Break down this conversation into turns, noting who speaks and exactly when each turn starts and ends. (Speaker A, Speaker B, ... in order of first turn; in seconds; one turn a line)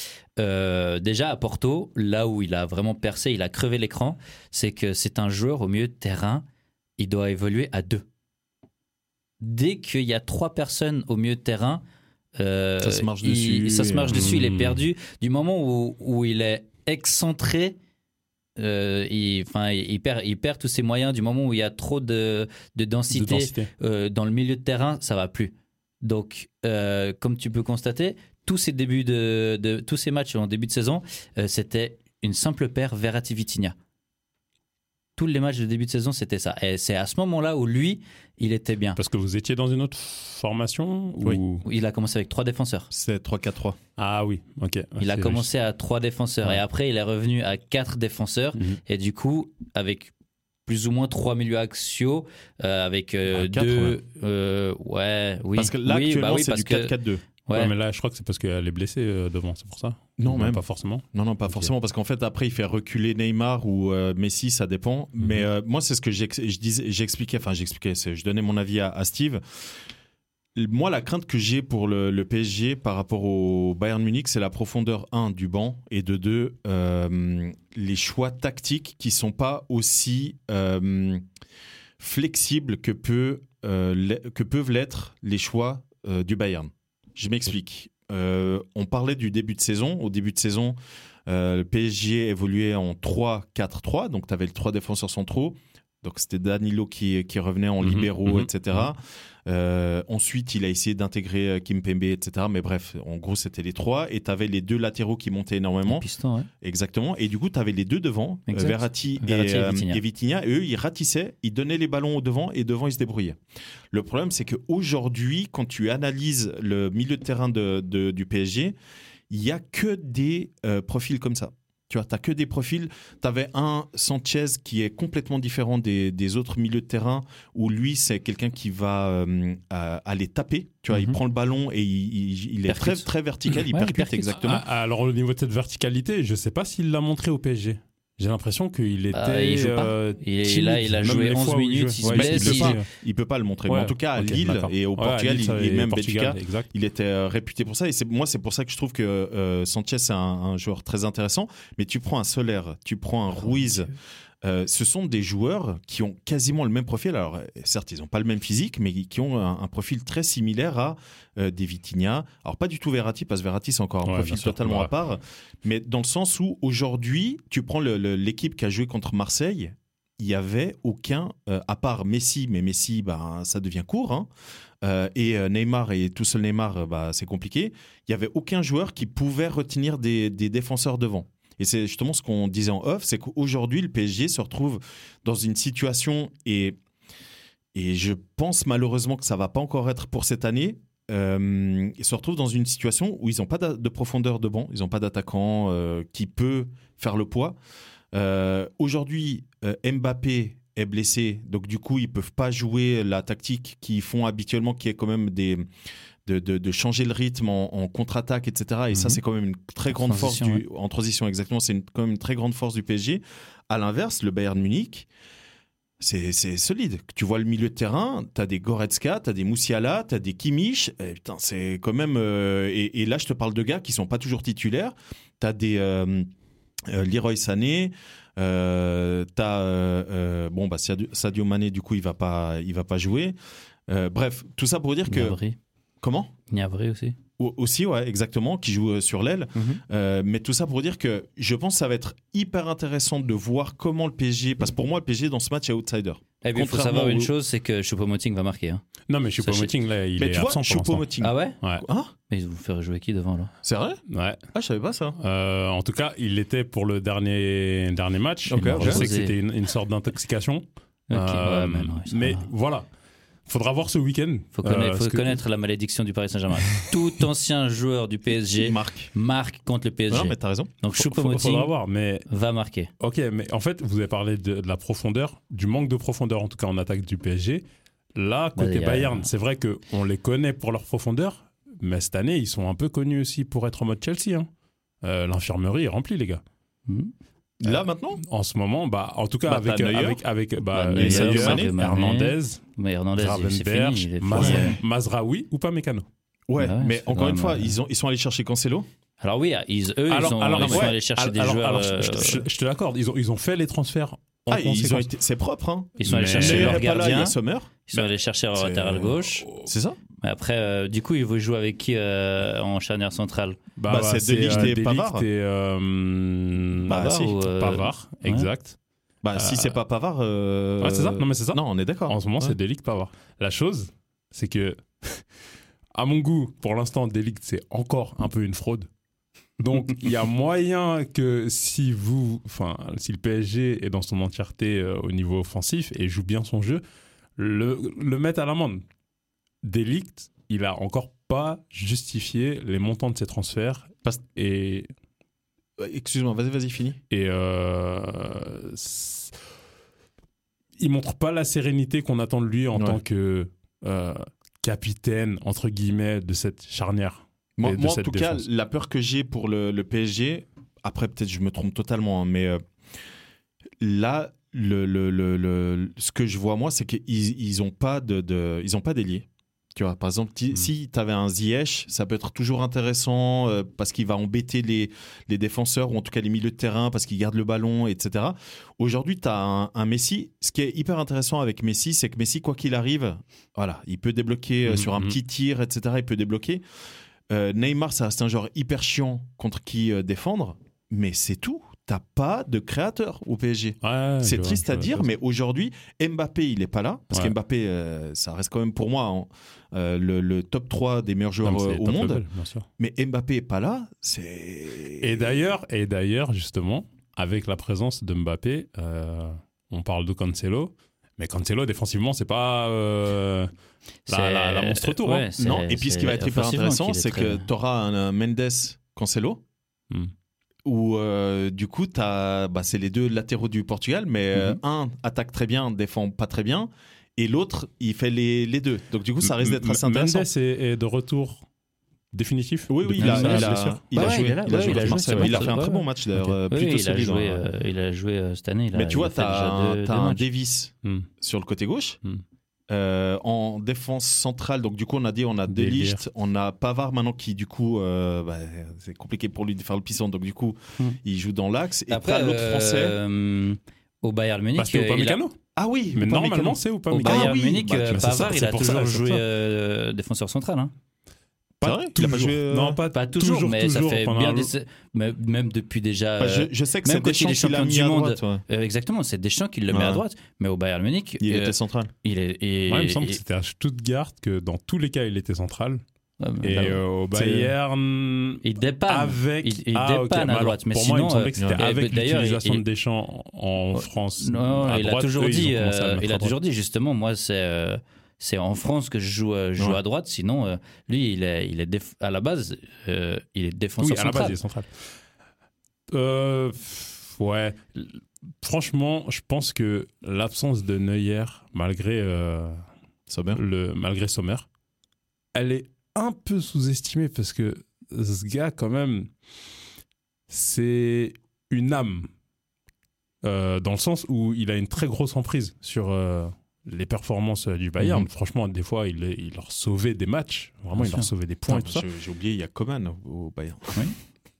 Speaker A: 0.4-6.4
Speaker A: 7.0-8.0
Speaker A: 9.4-11.8
Speaker A: 12.3-17.8
Speaker B: 12.8-14.2
Speaker C: 14.1-14.8
Speaker A: 18.6-33.7
Speaker C: 23.1-23.7
Speaker A: 35.2-39.0
Speaker C: 39.0-41.6
Speaker A: 41.6-42.9
Speaker B: 42.9-43.8
Speaker C: 44.0-45.5
Speaker A: 45.0-50.1
Speaker A: 50.6-56.9
Speaker B: 53.3-54.0
Speaker B: 55.5-57.2
Speaker A: 57.5-57.7
Speaker C: 57.5-61.7
Speaker B: 60.2-69.4
Speaker C: 65.2-65.4
Speaker B: 70.5-81.2
Speaker B: 82.0-90.8
Speaker B: 91.3-106.0
Speaker C: 97.8-98.5
Speaker A: 105.9-106.5
Speaker B: 106.6-113.4
Speaker A: 108.5-110.0
Speaker B: 113.9-118.7
Speaker B: 119.3-134.6
Speaker A: 130.9-131.2
Speaker A: 132.7-134.3
Speaker C: 134.3-142.8
Speaker A: 139.1-142.8
Speaker B: 142.1-153.9
Speaker C: 143.7-146.7
Speaker A: 153.4-153.9
Speaker B: 154.4-174.3
Speaker C: 164.0-164.9
Speaker B: 174.8-186.8
Speaker B: 187.7-197.6
Speaker B: 198.1-205.7
Speaker B: 206.2-215.1
Speaker A: 208.9-209.2
Speaker A: 209.9-210.6
Speaker B: 216.0-226.3
Speaker B: 226.9-233.3
Speaker B: 233.9-235.4
Speaker A: 235.1-235.6
Speaker B: 236.0-236.3
Speaker A: 236.5-237.2
Speaker B: 237.4-247.3
Speaker A: 246.4-248.8
Speaker C: 249.1-251.1
Speaker A: 249.4-249.7
Speaker B: 250.2-252.1
Speaker A: 251.2-251.6
Speaker A: 252.3-253.5
Speaker B: 253.6-254.0
Speaker C: 254.1-254.4
Speaker B: 254.5-255.2
Speaker C: 255.2-262.9
Speaker B: 258.5-259.0
Speaker A: 258.5-259.3
Speaker A: 261.1-262.5
Speaker C: 263.5-265.4
Speaker A: 264.6-271.7
Speaker B: 268.5-269.1
Speaker B: 270.1-270.7
Speaker C: 270.9-272.2
Speaker A: 272.3-272.9
Speaker C: 273.0-277.6
Speaker C: 278.1-284.5
Speaker A: 278.6-279.3
Speaker C: 285.0-286.4
Speaker A: 286.9-287.1
Speaker B: 287.6-288.2
Speaker C: 287.7-292.6
Speaker B: 289.4-290.2
Speaker A: 290.7-294.8
Speaker B: 290.9-291.7
Speaker C: 293.2-296.1
Speaker B: 294.3-294.8
Speaker B: 296.5-298.9
Speaker A: 296.6-297.8
Speaker A: 299.2-302.4
Speaker C: 300.1-305.1
Speaker B: 300.6-300.9
Speaker B: 304.5-307.7
Speaker A: 306.0-307.3
Speaker C: 306.0-307.0
Speaker A: 307.9-309.4
Speaker B: 308.5-310.0
Speaker C: 309.4-309.7
Speaker A: 310.2-313.6
Speaker C: 313.7-318.8
Speaker B: 313.9-315.3
Speaker B: 316.9-317.4
Speaker A: 316.9-318.5
Speaker B: 319.2-322.6
Speaker C: 319.3-319.7
Speaker C: 320.8-325.2
Speaker C: 325.9-328.9
Speaker C: 329.6-336.8
Speaker C: 337.4-338.8
Speaker C: 339.6-344.9
Speaker B: 345.8-347.0
Speaker C: 347.1-349.3
Speaker C: 350.8-358.4
Speaker B: 352.7-353.0
Speaker B: 357.6-362.6
Speaker B: 363.8-386.6
Speaker C: 384.6-385.1
Speaker B: 387.3-402.2
Speaker C: 393.8-395.1
Speaker C: 401.4-402.7
Speaker B: 402.8-405.4
Speaker C: 405.0-413.5
Speaker A: 414.1-417.5
Speaker C: 414.1-415.3
Speaker B: 415.4-419.4
Speaker B: 420.6-430.3
Speaker C: 429.2-431.4
Speaker C: 432.1-435.4
Speaker B: 432.7-437.5
Speaker A: 433.0-440.2
Speaker B: 438.7-442.0
Speaker C: 440.8-441.1
Speaker B: 442.7-452.9
Speaker C: 445.5-446.0
Speaker A: 451.9-455.2
Speaker C: 454.6-455.4
Speaker B: 455.6-458.3
Speaker C: 455.9-459.2
Speaker A: 456.9-460.7
Speaker C: 461.6-464.5
Speaker B: 461.6-462.8
Speaker A: 462.9-473.2
Speaker B: 466.2-468.4
Speaker B: 469.7-470.0
Speaker B: 471.2-471.9
Speaker C: 472.7-475.8
Speaker A: 476.2-476.8
Speaker C: 476.4-486.4
Speaker B: 477.1-477.5
Speaker A: 478.4-482.6
Speaker A: 483.7-494.4
Speaker C: 493.8-494.7
Speaker C: 495.9-502.6
Speaker B: 503.1-503.4
Speaker C: 503.3-504.4
Speaker C: 505.3-509.1
Speaker C: 510.3-512.1
Speaker C: 513.2-521.9
Speaker B: 517.8-518.1
Speaker A: 520.8-521.1
Speaker B: 521.5-523.9